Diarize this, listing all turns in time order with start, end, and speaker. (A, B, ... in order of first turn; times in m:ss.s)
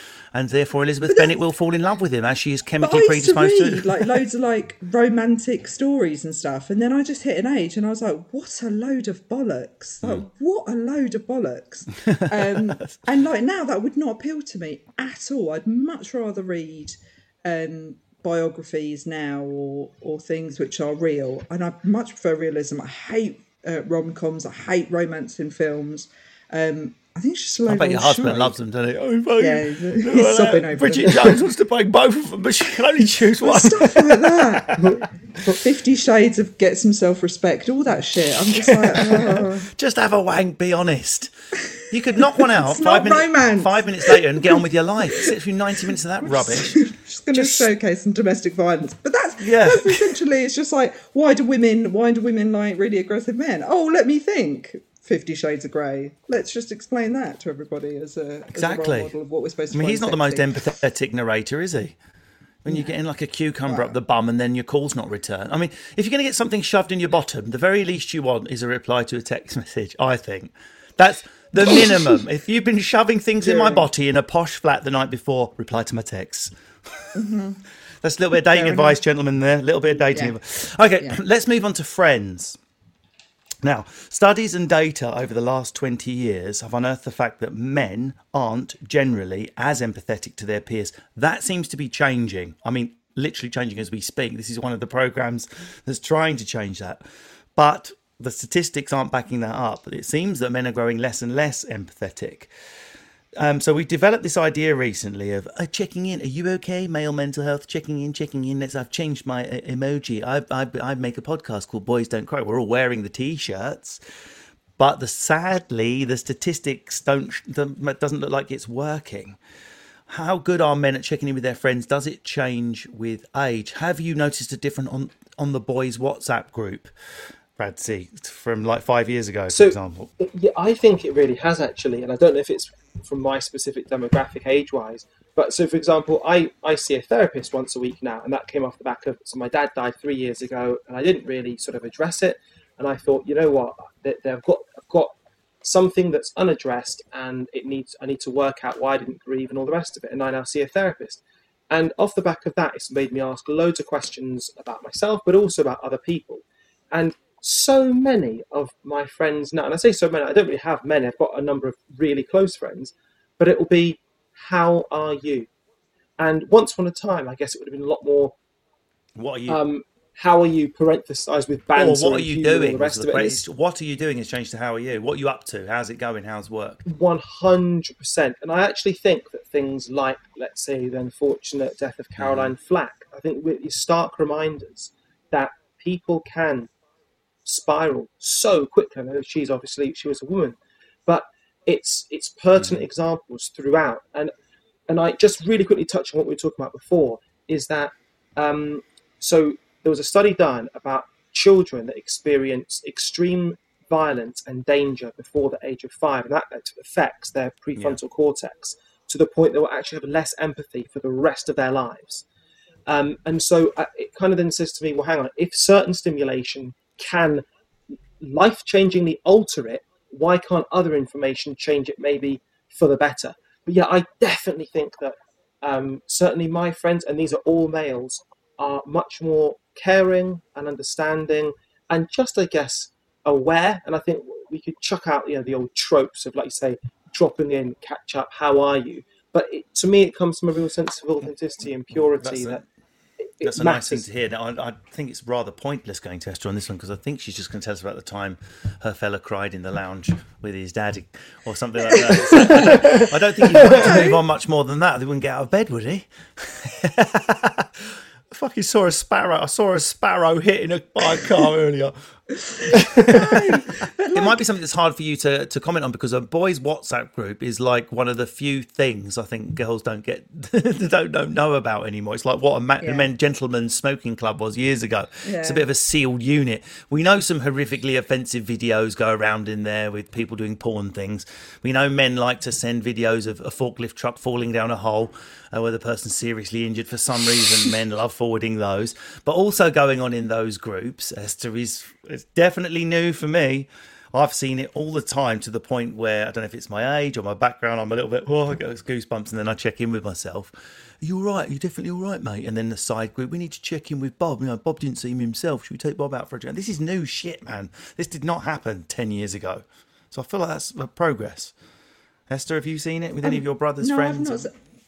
0:00.3-0:04.1 A
0:01.0-0:01.4 B
0:02.8-0:28.6 B
0:12.1-0:12.7 A
0:27.7-0:35.0 A
0:29.4-0:31.4 B
0:33.4-0:39.7 B
0:38.5-0:41.3 A
0:41.9-0:46.8 A
0:42.2-0:45.3 B
0:46.2-1:00.5 B
0:47.3-0:47.7 A
0:49.4-0:50.2 A
0:58.5-0:59.1 A
0:59.7-1:02.0 A
1:02.6-1:17.1 A
1:02.7-1:03.0 B
1:03.6-1:03.9 B
1:11.6-1:12.2 B
1:13.4-1:13.9 B
1:17.1-1:17.6 B
1:18.0-1:22.6 A
1:18.4-1:19.0 B
1:20.1-1:20.4 B
1:23.6-1:37.0 A
1:37.6-1:42.5 A
1:43.4-1:54.0 A
1:54.8-1:59.4 A
2:00.1-2:06.9 A
2:07.6-2:10.1 A
2:09.5-2:45.5 C
2:46.2-2:48.3 C
2:49.2-2:49.6 A
2:49.5-2:53.4 C
2:51.7-2:56.8 A
2:56.8-3:06.7 C
3:02.2-3:02.5 A
3:07.4-3:14.3 C
3:12.6-3:12.8 A
3:14.9-3:32.2 C
3:32.9-3:37.4 C
3:38.2-4:02.6 C
4:02.0-4:02.6 A
4:03.2-4:04.0 C
4:03.4-4:21.9 A
4:11.9-4:14.2 B
4:12.3-4:13.0 C
4:13.6-4:13.9 C
4:22.5-4:24.4 B
4:22.6-5:11.5 A
4:32.8-4:33.1 B
4:35.2-4:35.7 B
5:12.3-5:14.5 A
5:13.2-5:14.5 B